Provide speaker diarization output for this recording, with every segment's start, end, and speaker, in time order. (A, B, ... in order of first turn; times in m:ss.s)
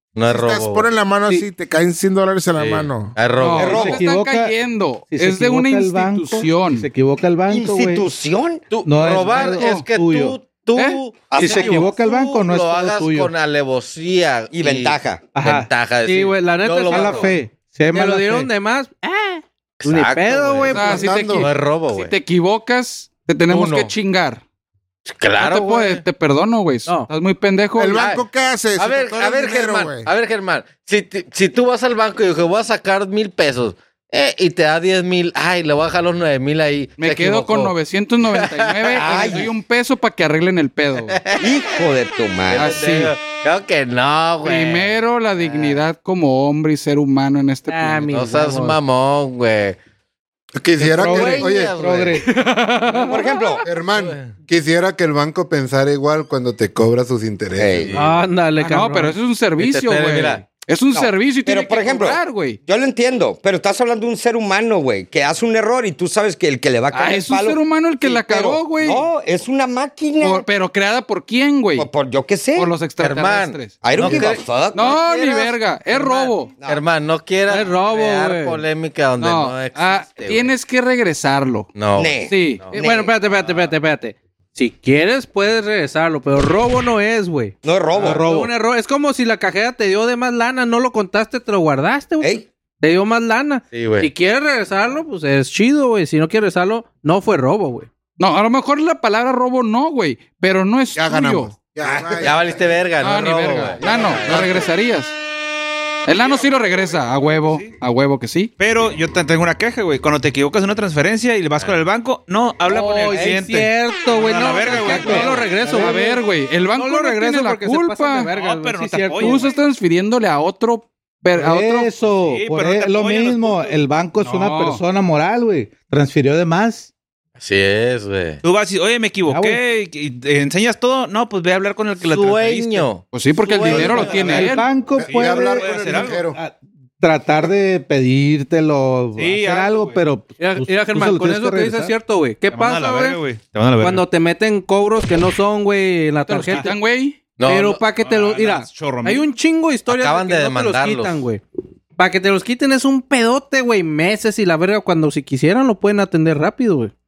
0:00.2-0:00.9 A
0:00.3-0:03.2 B
0:02.6-0:04.0 A
0:03.4-0:06.9 C
0:03.6-0:04.0 D
0:03.6-0:04.6 E
0:05.1-0:08.1 E
0:07.5-0:08.7 D
0:08.7-0:17.4 A
0:08.8-0:10.4 E
0:09.3-0:09.8 C
0:10.8-0:11.0 C
0:11.3-0:11.9 D
0:11.4-0:13.3 E
0:14.5-0:15.3 D
0:15.3-0:15.7 E
0:16.0-0:17.4 F
0:16.9-0:18.5 E
0:17.9-0:21.1 F
0:19.8-0:22.2 A
0:20.7-0:24.4 C
0:20.9-0:21.5 G
0:23.5-0:23.9 A
0:25.1-0:26.0 A
0:25.4-0:28.0 C
0:27.8-0:30.1 B
0:28.0-0:37.7 A
0:37.0-0:41.2 C
0:38.3-0:39.5 A
0:39.0-0:39.5 D
0:41.1-0:41.5 A
0:41.4-0:42.8 D
0:42.5-0:45.8 A
0:42.5-0:43.1 C
0:44.4-0:48.1 C
0:47.7-0:48.8 F
0:48.1-0:49.8 A
0:50.6-0:51.8 G
0:50.8-0:52.3 E
0:51.0-0:52.2 A
0:52.2-0:53.3 C
0:53.0-0:53.7 D
0:53.6-0:57.9 G
0:54.0-0:54.3 A
0:57.6-0:57.9 D
0:57.9-0:58.2 A
0:57.9-0:59.2 F
0:58.6-1:02.6 C
0:59.6-1:00.4 A
1:00.9-1:10.5 D
1:06.9-1:09.1 C
1:10.2-1:11.9 C
1:11.8-1:12.7 D
1:12.6-1:14.1 C
1:13.0-1:20.5 A
1:13.8-1:15.0 D
1:14.7-1:16.5 C
1:17.5-1:18.6 F
1:19.2-1:21.7 C
1:21.7-1:22.8 A
1:22.0-1:23.1 D
1:22.3-1:22.9 C
1:22.8-1:27.6 F
1:23.4-1:23.7 A
1:27.6-1:28.2 D
1:28.0-1:28.5 E
1:28.1-1:37.9 F
1:33.7-1:34.1 A
1:38.2-1:41.5 C
1:41.0-1:42.4 G
1:42.1-1:44.7 A
1:43.0-1:45.1 C
1:46.1-1:48.5 C
1:47.3-1:47.7 H
1:48.6-1:55.6 H
1:52.7-1:56.2 F
1:54.8-1:56.0 E
1:55.7-1:58.3 C
1:56.8-1:59.5 F
1:58.3-1:59.5 H
1:59.2-2:01.9 C
2:01.4-2:06.9 E
2:02.0-2:03.8 H
2:04.2-2:04.8 C
2:07.4-2:08.4 A
2:08.4-2:12.9 H
2:09.3-2:09.6 E
2:12.0-2:14.6 A
2:13.1-2:14.7 C
2:13.7-2:22.0 E
2:15.0-2:16.4 G
2:15.1-2:16.2 H
2:19.2-2:20.0 H
2:20.4-2:23.2 F
2:22.5-2:24.1 H
2:23.8-2:26.8 F
2:26.3-2:27.2 C
2:27.4-2:27.8 A
2:27.4-2:31.4 F
2:28.0-2:29.3 H
2:29.9-2:31.3 A
2:32.0-2:36.9 F